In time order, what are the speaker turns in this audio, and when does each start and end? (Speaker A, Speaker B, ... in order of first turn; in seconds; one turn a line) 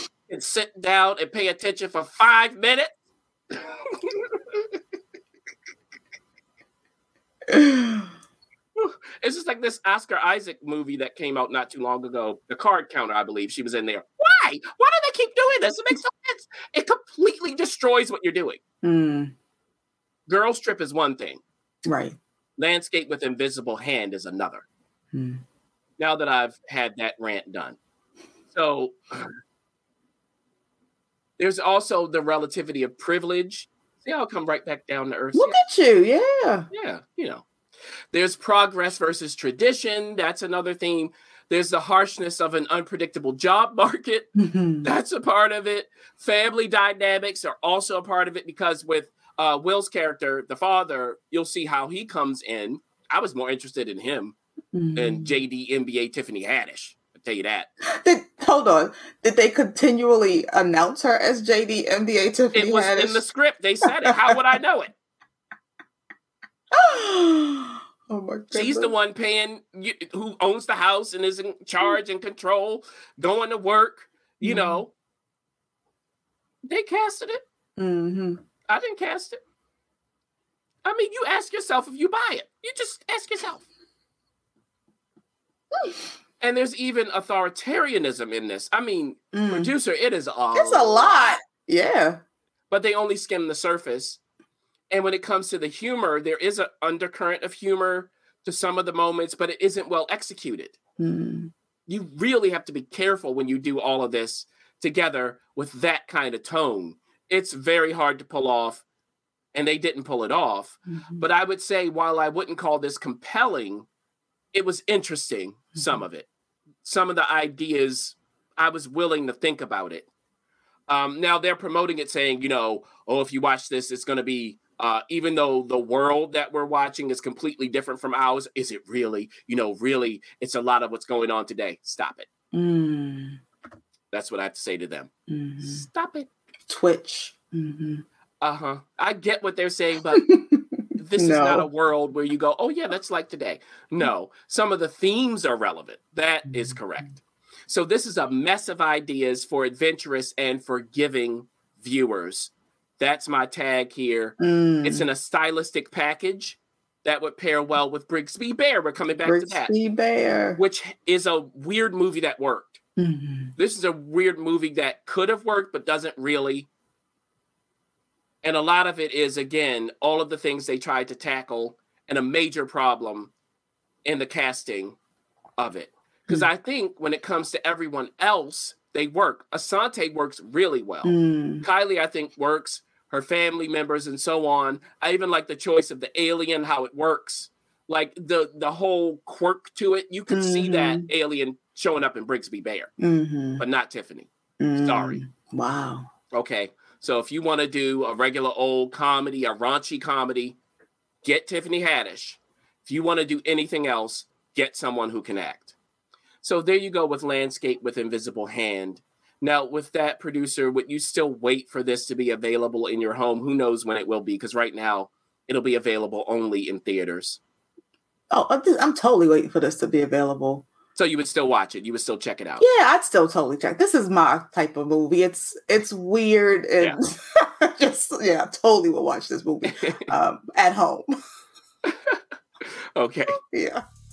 Speaker A: 0.3-2.9
Speaker A: 3.9-4.8
Speaker B: 7.5-8.1
Speaker A: 8.8-18.6
Speaker B: 18.8-19.3
Speaker A: 20.3-21.4
Speaker B: 21.9-22.2
Speaker A: 22.6-24.6
Speaker B: 25.1-25.4
Speaker A: 26.0-27.8
Speaker A: 28.5-29.3
Speaker A: 31.4-35.6
Speaker B: 35.3-36.7
Speaker A: 36.7-37.4
Speaker A: 38.1-44.3
Speaker B: 44.4-44.9
Speaker A: 44.8-54.3
Speaker B: 54.7-55.4
Speaker A: 55.0-57.7
Speaker B: 57.8-63.2
Speaker A: 62.5-64.9
Speaker B: 66.7-68.9
Speaker A: 68.5-74.9
Speaker B: 74.4-74.8
Speaker A: 76.7-77.4
Speaker B: 77.8-78.4
Speaker A: 78.7-79.4
Speaker A: 80.8-83.6
Speaker A: 86.4-91.3
Speaker B: 89.3-89.7
Speaker B: 90.5-92.2
Speaker A: 92.7-94.2
Speaker A: 94.9-100.7
Speaker B: 101.0-101.5
Speaker A: 101.9-108.8
Speaker A: 109.5-113.9
Speaker A: 114.5-116.3
Speaker A: 116.8-120.1
Speaker A: 120.9-132.3
Speaker B: 132.5-133.4
Speaker A: 134.1-135.1
Speaker B: 135.3-135.8
Speaker A: 135.6-136.3
Speaker B: 136.7-138.0
Speaker A: 138.4-140.2
Speaker B: 140.2-141.7
Speaker A: 141.0-159.7
Speaker B: 154.4-155.1
Speaker B: 159.2-160.6
Speaker A: 160.6-162.8
Speaker B: 163.0-163.5
Speaker A: 163.6-166.7
Speaker A: 168.4-173.3
Speaker A: 174.0-175.0
Speaker A: 175.6-192.9
Speaker B: 181.0-181.7
Speaker B: 190.3-191.1
Speaker B: 193.0-193.6
Speaker A: 193.6-195.2
Speaker B: 194.6-196.1
Speaker A: 196.3-200.6
Speaker A: 201.2-205.7
Speaker A: 206.4-217.4
Speaker B: 218.3-220.7
Speaker A: 220.9-222.7
Speaker B: 222.6-231.1
Speaker A: 229.7-230.1
Speaker A: 231.9-232.2
Speaker A: 232.9-233.4
Speaker B: 233.3-233.8